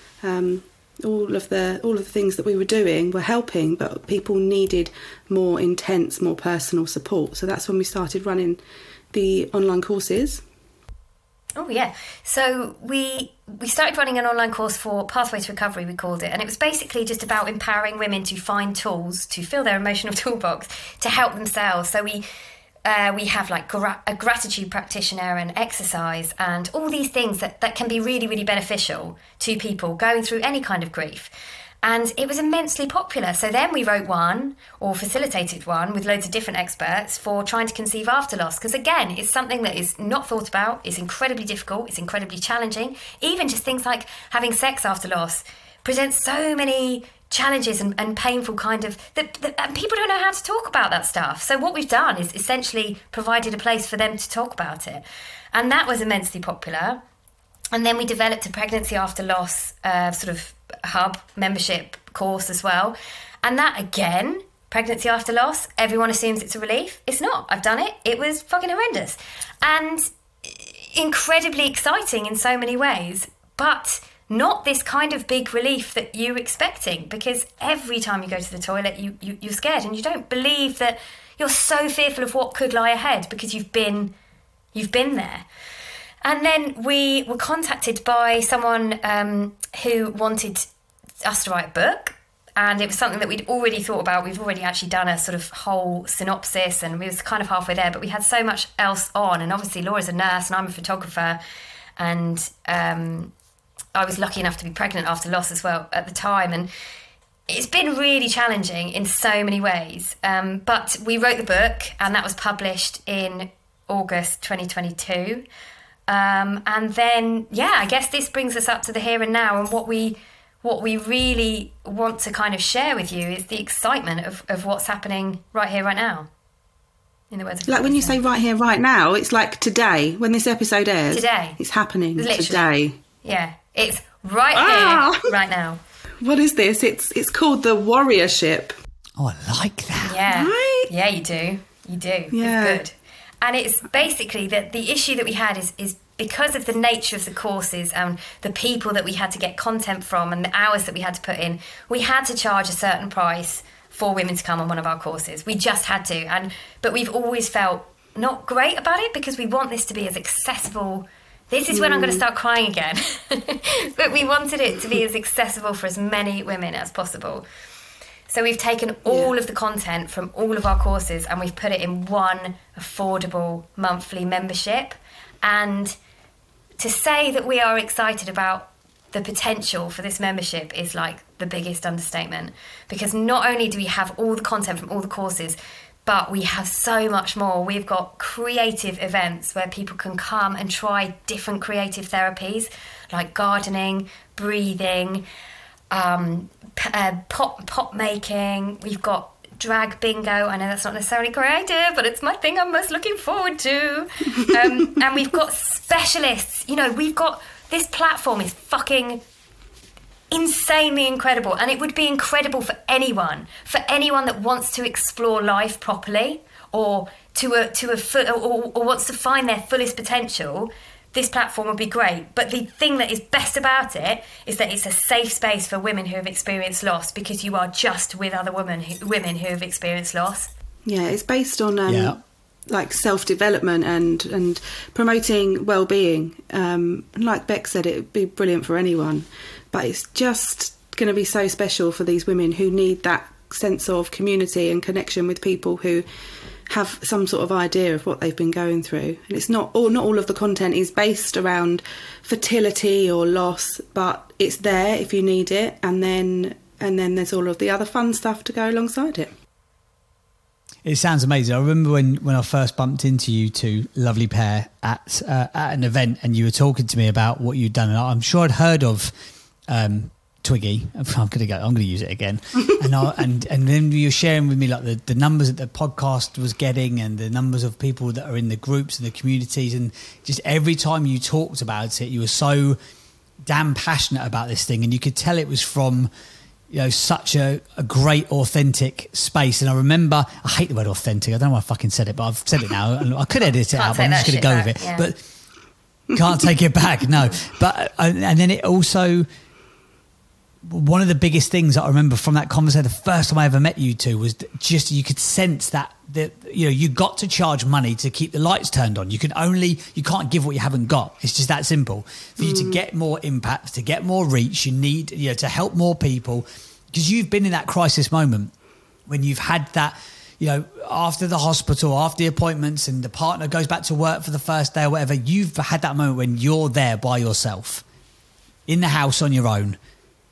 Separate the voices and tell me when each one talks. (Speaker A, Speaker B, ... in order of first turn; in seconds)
Speaker A: 0.2-8.6, 9.1-10.4, 127.7-132.9, 134.6-135.2, 136.2-138.8, 140.3-140.9, 142.3-142.8, 161.7-162.2, 230.9-246.1, 246.7-259.3, 312.4-312.8
Speaker B: 11.6-22.2, 22.8-31.3, 31.8-57.0, 57.7-84.1, 84.7-85.4, 86.2-90.7, 91.2-101.4, 102.0-103.3, 103.9-106.7, 107.5-115.4, 116.1-126.3, 127.3-128.2, 131.1-131.6, 132.2-132.6, 133.2-135.8, 140.0-167.4, 168.3-175.9, 176.8-195.2, 195.9-209.2, 210.3-230.5, 293.7-295.1
Speaker C: 139.2-140.2, 231.9-232.2, 260.8-269.1, 269.7-282.8, 283.4-286.1, 286.7-295.2, 296.1-299.3, 300.6-318.5, 319.1-327.8, 328.7-329.8